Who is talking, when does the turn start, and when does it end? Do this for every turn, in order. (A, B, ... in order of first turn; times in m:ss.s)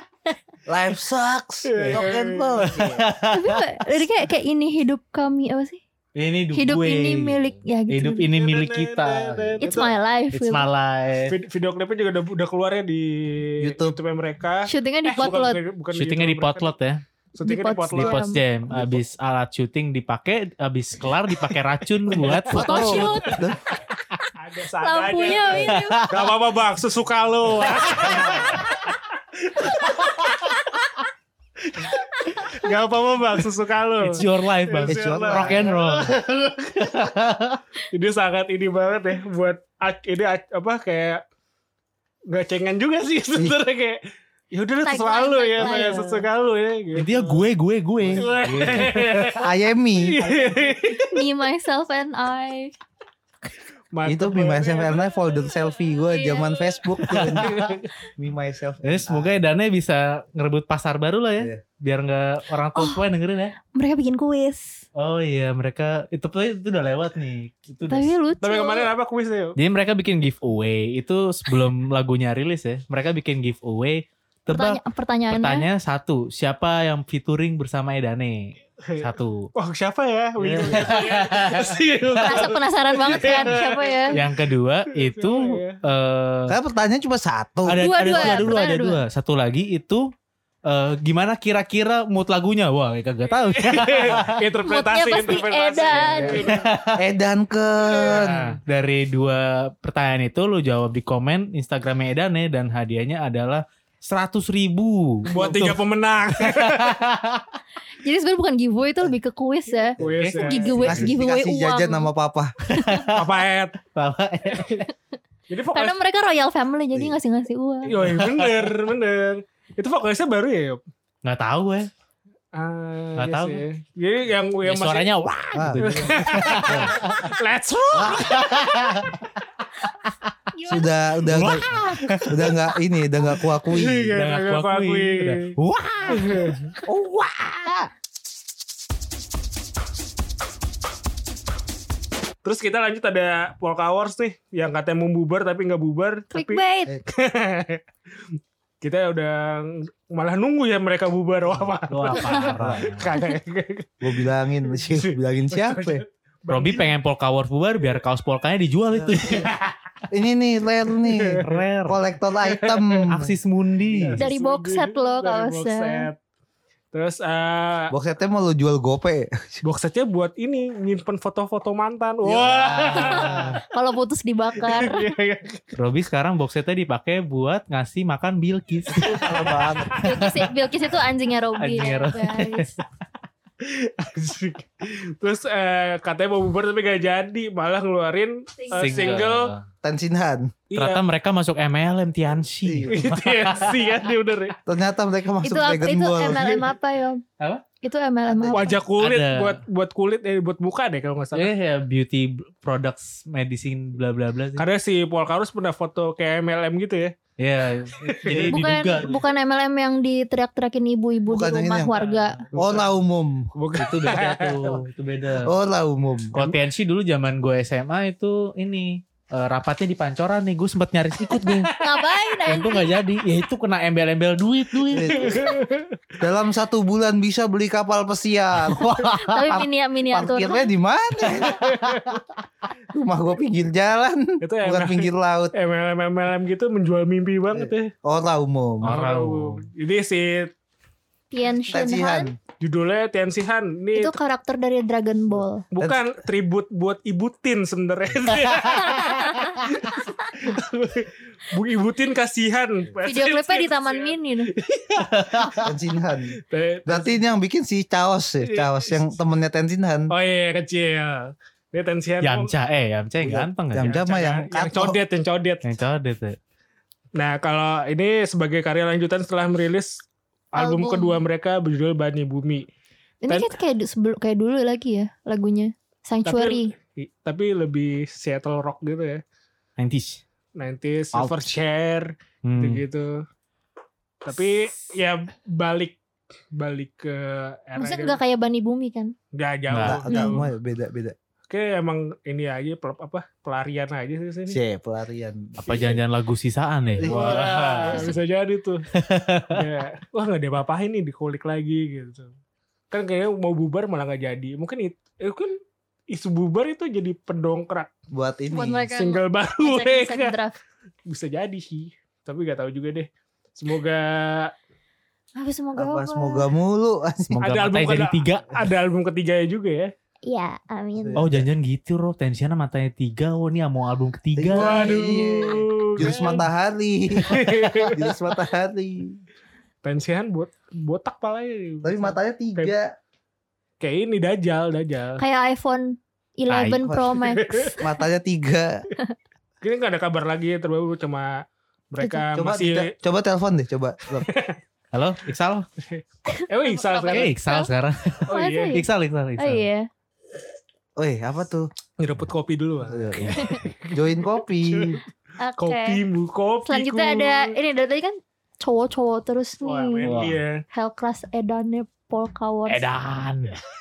0:00.7-0:03.0 A
0:01.7-0:02.9 B
0:01.8-0:02.1 C
0:02.8-0:03.6 C
0:03.3-0:05.8 D
0:06.1-0:11.3 C
0:06.5-0:08.3 D
0:08.3-0:09.9 B
0:09.6-0:10.7 D
0:11.3-0:16.7 B
0:13.6-0:14.0 A
0:14.6-0:15.6 D
0:15.9-0:17.0 C
0:17.3-0:19.0 B
0:17.4-0:18.4 D
0:17.9-0:23.5 C
0:22.1-0:23.6 A
0:22.5-0:23.4 D
0:24.4-0:29.0 B
0:24.8-0:26.1 D
0:25.5-0:26.3 C
0:27.7-0:28.5 C
0:29.6-0:30.3 B
0:31.7-0:36.9 B
0:34.0-0:36.2 C
0:34.8-0:35.7 A
0:36.8-0:37.6 C
0:37.9-0:41.2 B
0:42.3-0:47.4 B
0:44.8-0:46.2 D
0:46.9-0:49.2 C
0:48.0-0:50.3 A
0:48.2-0:51.2 B
0:50.3-0:50.7 C
0:51.0-0:52.7 D
0:53.9-0:55.2 B
0:54.0-0:59.4 A
0:56.0-0:56.7 D
0:57.0-0:57.8 C
0:57.3-0:57.8 B
0:58.8-1:03.6 C
1:02.7-1:03.0 D
1:03.7-1:04.8 D
1:04.9-1:08.1 C
1:07.9-1:08.9 D
1:08.4-1:09.6 B
1:09.6-1:19.5 C
1:14.5-1:15.6 D
1:18.9-1:24.3 B
1:20.4-1:22.5 C
1:22.2-1:24.2 D
1:24.1-1:26.6 C
1:25.0-1:25.8 B
1:26.5-1:28.5 A
1:27.6-1:30.1 C
1:27.8-1:29.0 D
1:30.6-1:34.3 C
1:33.6-1:36.6 B
1:34.6-1:36.5 D
1:36.0-1:37.0 C
1:36.9-1:38.5 A
1:38.1-1:45.8 C
1:45.2-1:47.0 B
1:46.4-1:47.4 C
1:48.0-1:52.1 D
1:50.0-1:51.1 B
1:50.0-1:52.5 A
1:52.7-1:53.2 C
1:52.7-1:53.1 D
1:53.1-1:53.8 B
1:53.9-1:54.9 C
1:55.5-1:56.0 B
1:55.7-1:57.9 D
1:57.8-2:00.8 B
1:58.0-1:58.7 C
2:01.2-2:01.9 C
2:02.5-2:05.1 B
2:03.2-2:03.6 C
2:04.6-2:07.1 C
2:05.5-2:07.1 A
2:05.8-2:09.0 B
2:07.9-2:08.5 A
2:08.3-2:09.2 C
2:10.5-2:10.9 D
2:10.7-2:14.1 A
2:11.2-2:12.3 C
2:13.7-2:15.6 B
2:14.1-2:16.5 C
2:16.1-2:16.7 B
2:16.8-2:17.9 A
2:22.4-2:27.8 B
2:26.3-2:27.0 D
2:28.8-2:34.1 B
2:31.9-2:33.1 C
2:32.1-2:32.5 D
2:32.6-2:32.8 A
2:34.0-2:36.0 A
2:34.7-2:36.9 B
2:36.5-2:39.4 C
2:39.0-2:39.5 A
2:39.3-2:39.7 B
2:40.1-2:43.3 A
2:41.0-2:41.6 B
2:41.4-2:42.0 C
2:42.4-2:43.0 B
2:43.1-2:44.2 C
2:43.9-2:46.2 B
2:44.2-2:46.1 D
2:46.9-2:47.9 B
2:47.9-2:49.6 A
2:49.6-2:53.6 B
2:52.2-2:53.0 A
2:52.4-2:53.6 C
2:52.9-2:55.0 D
2:54.6-2:55.6 B
2:55.7-2:59.3 C
2:58.9-3:00.3 A
2:59.1-3:00.1 B
3:00.0-3:02.8 D
3:01.6-3:02.7 C
3:03.6-3:09.5 B
3:08.6-3:09.2 D
3:08.7-3:09.6 C
3:09.8-3:10.5 A
3:10.7-3:11.0 B
3:10.7-3:13.9 C
3:12.6-3:13.0 A
3:12.9-3:14.6 B
3:14.6-3:16.6 A
3:15.4-3:17.2 D
3:17.8-3:18.8 D
3:18.3-3:18.7 A
3:18.5-3:21.5 B
3:19.0-3:19.6 C
3:21.3-3:24.6 C
3:24.6-3:27.1 B
3:27.4-3:29.2 C
3:28.1-3:28.6 B
3:28.4-3:32.4 D
3:31.3-3:32.0 A
3:31.9-3:32.9 B
3:32.5-3:33.5 A
3:33.5-3:34.6 B
3:33.8-3:35.5 C
3:35.4-3:36.3 A
3:36.3-3:41.7 C
3:41.4-3:42.1 B
3:41.8-3:42.8 D
3:42.5-3:45.3 C
3:44.9-3:45.4 A
3:45.1-3:45.9 B
3:46.2-3:52.2 A
3:48.6-3:49.4 C
3:49.2-3:50.7 D
3:51.2-3:52.2 B
3:52.9-3:55.5 A
3:54.4-3:57.9 B
3:57.5-3:59.0 A
3:58.8-3:59.6 C
3:58.8-4:00.5 B
4:01.3-4:02.3 D
4:01.7-4:02.4 A
4:02.6-4:04.1 B
4:03.9-4:05.6 D
4:05.7-4:15.6 B
4:05.8-4:06.1 A
4:08.7-4:09.6 D
4:13.0-4:14.5 D
4:15.1-4:15.6 C
4:15.6-4:20.1 A
4:16.3-4:17.2 B
4:18.4-4:19.0 B
4:20.1-4:22.5 B
4:22.2-4:24.0 C
4:23.2-4:25.0 A
4:23.8-4:25.7 B
4:25.6-4:26.4 C
4:27.1-4:32.7 B
4:30.6-4:31.2 D
4:33.2-4:36.7 D
4:33.3-4:33.5 B
4:36.2-4:39.2 B
4:39.8-4:40.2 C
4:40.5-4:43.2 B
4:42.4-4:42.8 C
4:44.2-4:46.0 B
4:46.5-4:48.2 B
4:47.8-4:49.1 D
4:49.3-4:50.5 B
4:49.7-4:50.0 C
4:49.8-4:51.1 A
4:50.1-4:50.4 D
4:51.5-4:54.6 B
4:54.5-4:56.0 A
4:55.6-4:58.1 C
4:57.0-4:57.5 A
4:57.0-4:58.8 B
4:57.1-4:58.2 D
4:59.0-4:59.6 C
4:59.5-5:02.3 B
5:02.9-5:05.5 B
5:06.1-5:07.9 B
5:08.1-5:08.8 A
5:08.5-5:10.5 D
5:08.9-5:10.4 B
5:11.1-5:14.5 B
5:15.4-5:16.5 D
5:15.8-5:17.4 A
5:17.4-5:18.6 C
5:17.4-5:19.9 B
5:20.2-5:21.2 D
5:21.0-5:21.5 A
5:21.2-5:24.9 C
5:24.4-5:29.2 A
5:24.5-5:26.5 B
5:27.2-5:28.2 B
5:29.8-5:32.7 B
5:31.8-5:32.9 A
5:33.8-5:35.2 B
5:35.2-5:37.8 D
5:36.5-5:37.2 A
5:37.3-5:37.7 B
5:37.8-5:38.8 A
5:39.6-5:42.9 B
5:42.4-5:44.3 A
5:44.1-5:44.6 B
5:44.9-5:45.7 C
5:45.8-5:47.3 B
5:46.3-5:47.7 D
5:47.1-5:49.6 C
5:48.3-5:48.8 B
5:48.3-5:48.8 D
5:49.4-5:49.9 D
5:51.0-5:51.7 A
5:52.0-5:53.9 B
5:52.9-5:55.0 A
5:53.2-5:53.5 C
5:54.6-5:55.0 B
5:55.4-5:56.0 D
5:55.6-5:57.5 B
5:56.6-6:00.2 D
5:59.6-6:00.6 B
6:00.0-6:00.4 C
6:00.7-6:02.8 D
6:02.7-6:03.6 C